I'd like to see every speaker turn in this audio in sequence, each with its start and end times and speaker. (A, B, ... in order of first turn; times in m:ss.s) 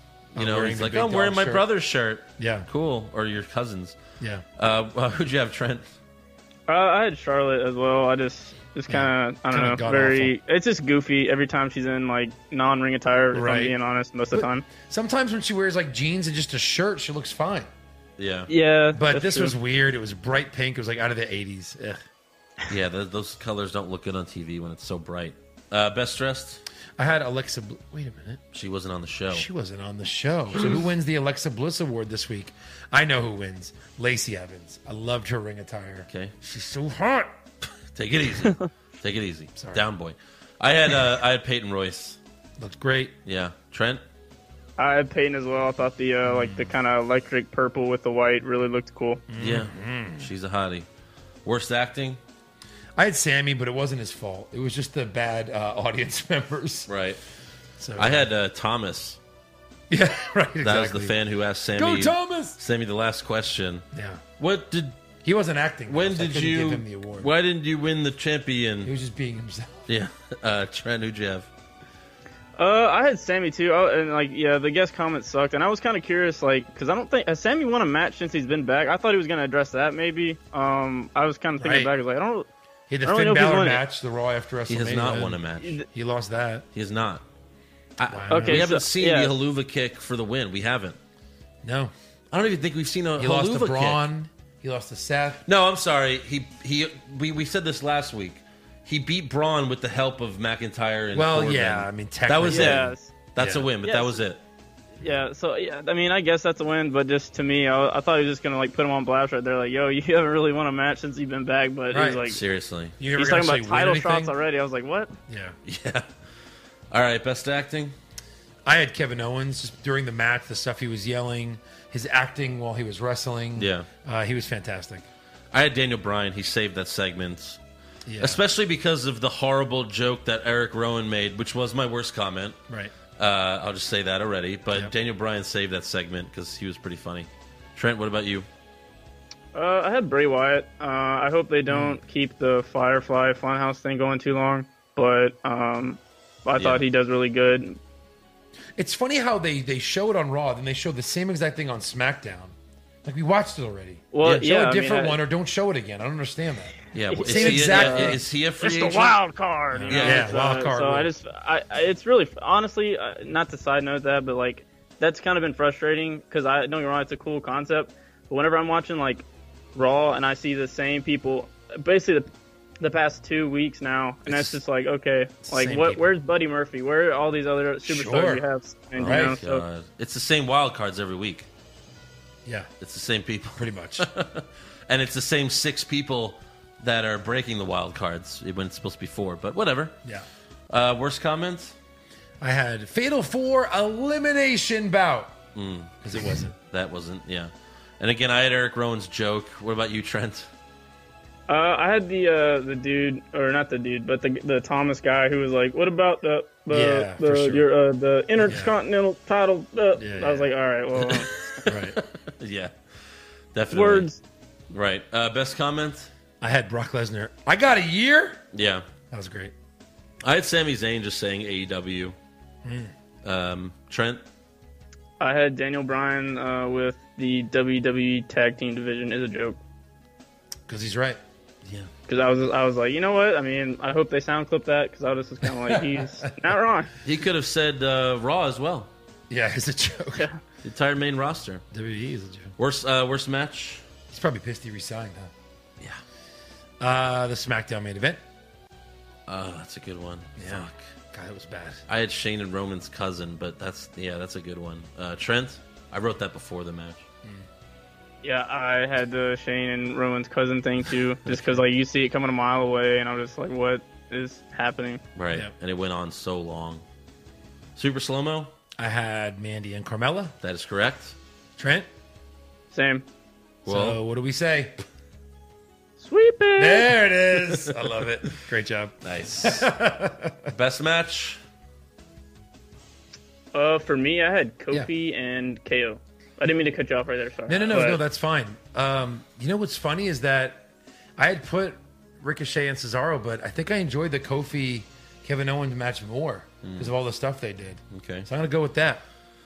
0:00.3-0:04.0 A
0:00.4-0:01.7 B
0:02.4-0:02.7 B
0:04.2-0:04.4 B
0:04.6-0:05.9 A
0:06.7-0:14.7 C
0:08.9-0:10.3 B
0:13.3-0:13.8 B
0:14.3-0:17.7 B
0:18.2-0:18.5 A
0:18.5-0:19.6 C
0:18.9-0:22.0 B
0:22.7-0:26.6 A
0:27.0-0:28.4 B
0:28.5-0:29.5 A
0:29.3-0:37.3 B
0:36.1-0:36.3 A
0:37.9-0:42.2 A
0:39.6-0:39.8 B
0:42.6-0:43.2 B
0:43.2-0:44.0 A
0:44.8-0:49.2 C
0:46.2-0:46.7 B
0:49.3-0:50.3 B
0:49.4-0:50.9 A
0:51.4-0:52.2 A
0:53.0-0:56.9 B
0:56.9-0:57.2 A
0:57.8-0:58.3 B
0:58.0-0:59.2 A
0:59.9-1:01.2 B
1:00.6-1:03.8 A
1:01.7-1:02.6 B
1:03.9-1:04.2 B
1:04.4-1:05.0 A
1:05.2-1:07.3 B
1:05.9-1:08.9 A
1:08.8-1:09.9 B
1:09.9-1:11.5 A
1:12.6-1:22.5 C
1:21.6-1:21.9 B
1:22.9-1:26.6 B
1:23.0-1:23.8 C
1:24.7-1:25.8 A
1:26.7-1:27.2 A
1:28.0-1:31.0 A
1:28.1-1:28.7 B
1:28.3-1:29.4 C
1:31.6-1:31.9 B
1:32.3-1:34.0 A
1:33.2-1:35.4 B
1:35.4-1:44.4 A
1:41.1-1:43.7 B
1:42.5-1:43.1 C
1:43.8-1:44.2 C
1:45.0-1:52.4 C
1:51.9-1:52.3 B
1:52.2-1:53.0 A
1:53.0-1:54.3 B
1:53.1-1:55.1 C
1:55.3-1:55.6 B
1:55.7-1:56.1 A
1:56.9-1:58.0 A
1:58.7-2:05.0 B
2:03.6-2:03.9 A
2:05.5-2:07.6 A
2:08.1-2:08.4 B
2:08.2-2:12.6 A
2:13.2-2:18.5 A
2:19.5-2:27.8 C
2:21.7-2:22.0 B
2:26.6-2:26.8 A
2:28.8-2:32.5 B
2:33.0-2:38.2 B
2:34.1-2:35.2 C
2:36.9-2:39.2 A
2:37.1-2:52.3 C
2:39.7-2:41.1 B
2:39.9-2:40.3 A
2:52.8-2:59.6 C
2:54.3-2:54.6 B
2:55.4-2:56.1 B
2:57.8-2:58.4 B
2:59.0-3:01.5 A
2:59.0-2:59.4 B
3:02.8-3:10.0 A
3:03.6-3:04.1 B
3:10.7-3:11.7 A
3:12.4-3:15.4 B
3:15.6-3:20.5 A
3:16.0-3:16.5 B
3:21.5-3:31.5 C
3:26.7-3:27.7 B
3:28.4-3:28.7 B
3:30.0-3:30.5 B
3:31.0-3:32.7 A
3:31.7-3:32.0 B
3:33.5-3:34.1 A
3:33.7-3:34.2 C
3:34.7-3:36.1 A
3:36.4-3:38.4 B
3:38.5-3:38.9 A
3:39.1-3:39.5 B
3:40.2-3:42.2 A
3:42.6-3:42.9 B
3:43.2-3:44.2 A
3:45.2-3:49.6 C
3:50.7-3:51.2 B
3:51.6-3:51.9 A
3:52.1-3:56.9 C
3:55.4-3:56.5 B
3:57.0-3:58.9 A
3:59.3-4:00.3 B
4:00.6-4:01.6 A
4:01.7-4:02.6 B
4:02.6-4:03.8 A
4:04.1-4:05.3 B
4:06.8-4:08.2 B
4:09.3-4:10.8 A
4:10.4-4:11.8 B
4:11.9-4:17.0 A
4:18.2-4:25.0 C
4:21.3-4:21.6 A
4:25.2-4:26.8 A
4:27.8-4:28.5 A
4:28.8-4:30.3 B
4:30.4-4:31.2 A
4:31.6-4:31.9 B
4:32.7-4:33.0 C
4:33.6-4:34.0 A
4:33.7-4:34.8 B
4:36.0-4:36.9 C
4:36.6-4:40.5 B
4:39.0-4:39.7 A
4:40.5-4:41.4 A
4:43.5-4:48.0 C
4:47.5-4:59.0 B
4:56.6-4:56.9 A
4:57.9-4:58.3 A